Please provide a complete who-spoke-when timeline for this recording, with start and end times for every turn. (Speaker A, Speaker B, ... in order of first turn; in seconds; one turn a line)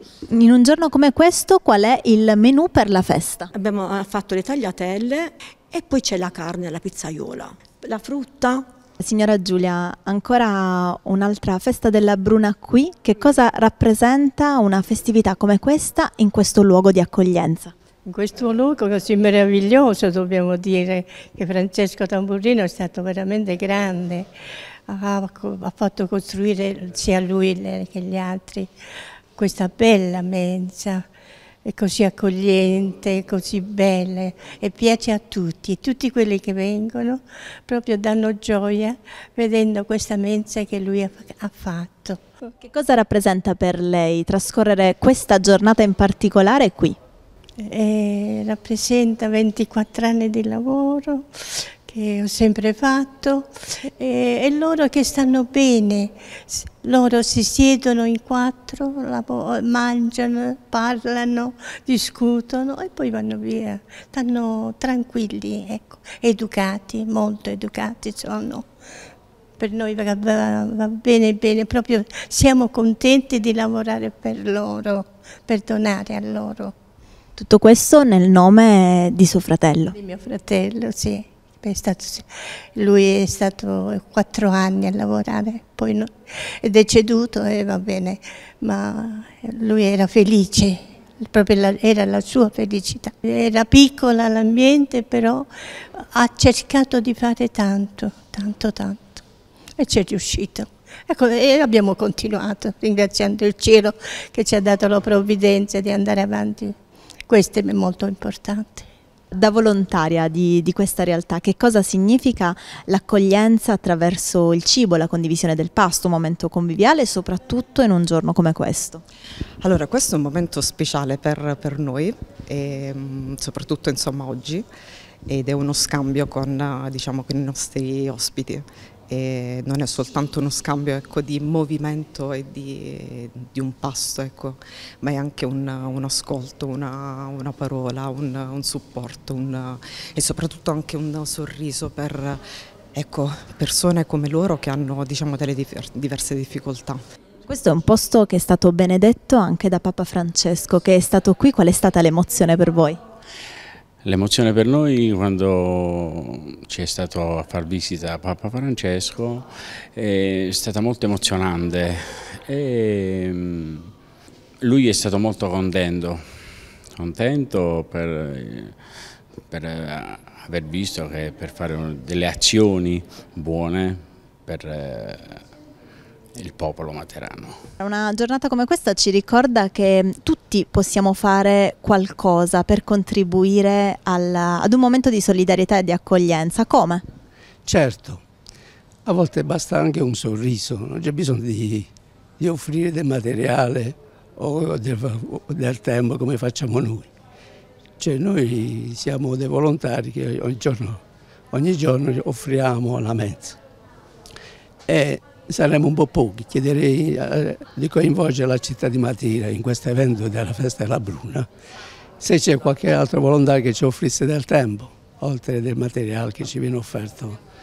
Speaker A: 0.3-3.5
Speaker B: 3.5-8.6
Speaker A: 9.0-17.7
Speaker C: 18.1-24.3
Speaker C: 24.9-28.7
Speaker C: 29.4-31.1
Speaker C: 31.6-42.2
Speaker A: 42.6-47.0
Speaker C: 47.6-68.7
Speaker C: 69.6-76.7
Speaker A: 77.4-79.9
Speaker C: 79.9-99.2
Speaker C: 99.8-108.9
Speaker A: 109.4-119.0
Speaker D: 119.6-124.6
Speaker D: 125.3-142.3
Speaker D: 143.0-147.0
Speaker A: 147.5-153.0
Speaker E: 154.0-163.9
Speaker E: 164.6-166.2
Speaker E: 166.9-168.8
Speaker E: 169.5-175.4
Speaker E: 176.4-177.6
Speaker A: 177.8-187.0
Speaker F: 187.7-188.2
Speaker F: 189.1-191.9
Speaker F: 192.4-197.1
Speaker F: 198.0-201.0
Speaker F: 201.5-203.6
Speaker F: 204.9-211.5
Speaker F: 212.2-217.4